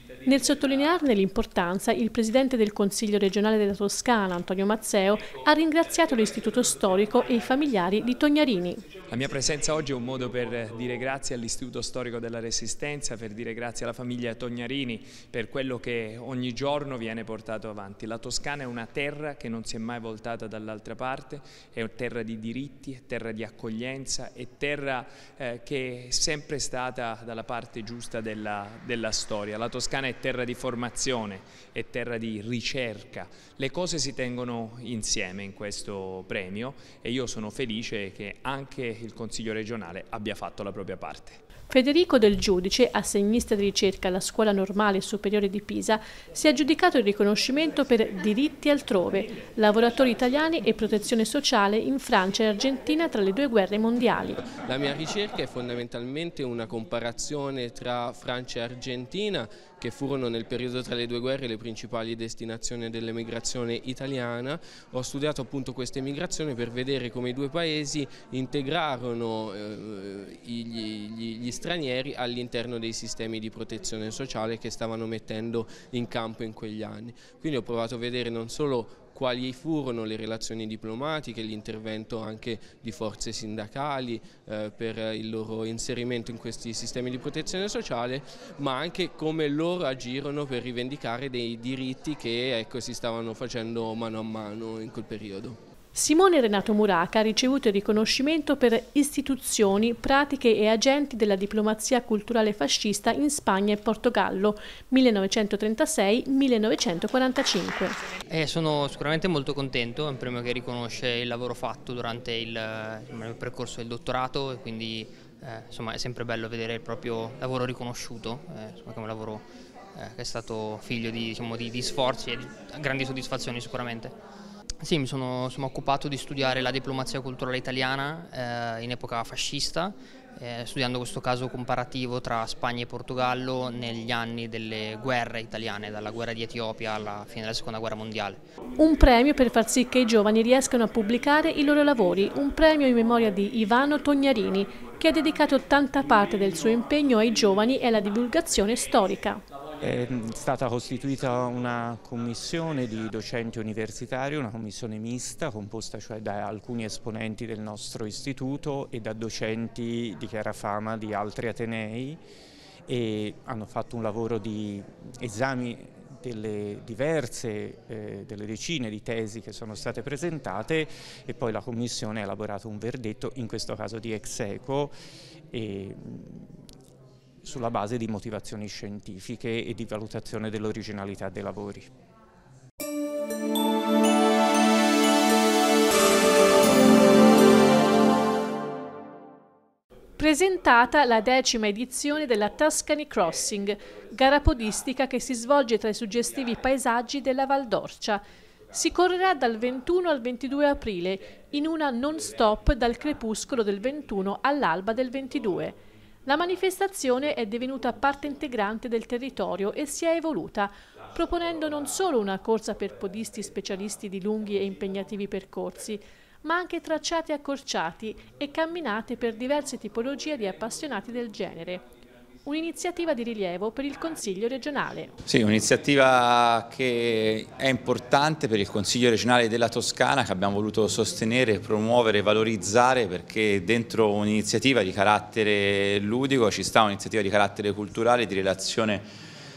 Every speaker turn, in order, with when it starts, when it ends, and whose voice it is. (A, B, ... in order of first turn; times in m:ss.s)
0:00.2-0:08.8 A
0:09.1-0:41.4 B
0:41.7-0:54.4 A
0:54.5-1:35.6 C
1:35.9-1:48.0 A
1:48.3-2:04.1 D
2:04.8-2:18.4 D
2:18.8-2:29.4 A
2:29.8-2:42.2 E
2:42.9-2:54.9 E
2:55.5-2:56.4 E
2:57.4-3:01.9 E
3:10.2-3:41.8 A
3:42.4-3:45.1 A
3:45.2-3:59.0 F